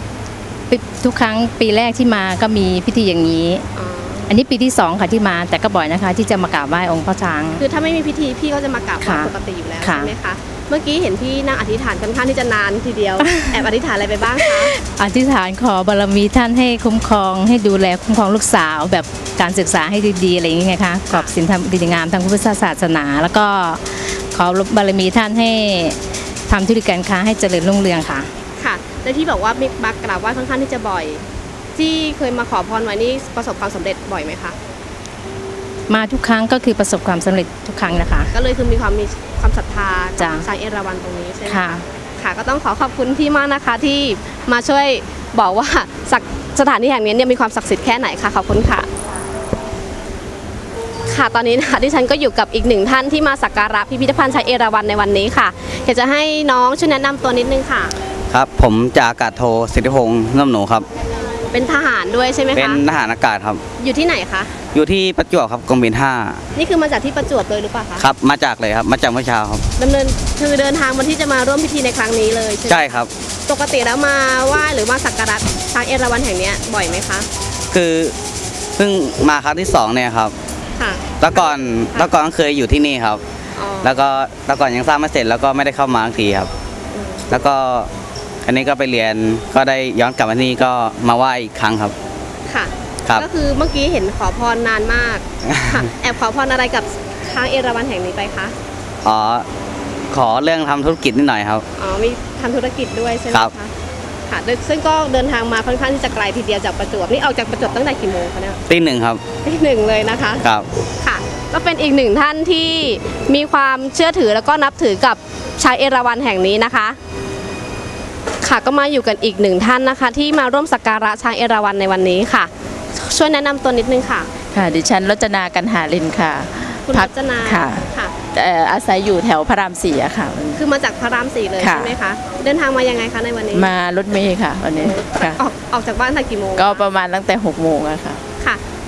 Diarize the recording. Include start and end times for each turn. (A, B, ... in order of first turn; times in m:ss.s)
0:00.7-0:03.6 A
0:03.8-0:04.2 B
0:04.3-0:07.6 A
0:07.6-0:14.8 B
0:09.0-0:09.3 A
0:09.8-0:10.1 A
0:13.2-0:13.5 A
0:14.8-0:28.3 A
0:28.6-0:31.2 B
0:31.8-0:34.6 B
0:35.9-0:38.3 A
0:38.3-0:48.9 B
0:40.2-0:40.4 A
0:41.5-0:41.8 A
0:51.1-0:57.9 B
0:58.3-1:00.8 C
1:01.5-1:02.8 B
1:02.6-1:03.6 C
1:03.8-1:04.5 B
1:04.7-1:06.4 C
1:06.6-1:08.1 B
1:08.0-1:09.6 C
1:09.8-1:17.3 B
1:12.7-1:13.1 C
1:17.7-1:18.1 C
1:18.8-1:20.3 C
1:20.8-1:22.1 B
1:21.2-1:23.2 C
1:23.6-1:24.0 B
1:23.8-1:26.5 C
1:26.9-1:27.2 B
1:27.3-1:27.9 C
1:28.4-1:32.0 C
1:32.5-1:38.5 B
1:39.0-1:39.5 C
1:40.1-1:41.6 C
1:41.8-1:43.7 B
1:44.3-1:48.6 B
1:48.7-1:49.2 C
1:49.4-1:50.5 B
1:51.0-1:57.0 B
1:58.4-2:04.3 B
2:04.5-2:10.6 D
2:06.8-2:08.2 B
2:10.6-2:13.7 B
2:11.6-2:12.0 D
2:13.5-2:15.4 D
2:14.8-2:16.8 B
2:16.6-2:18.2 D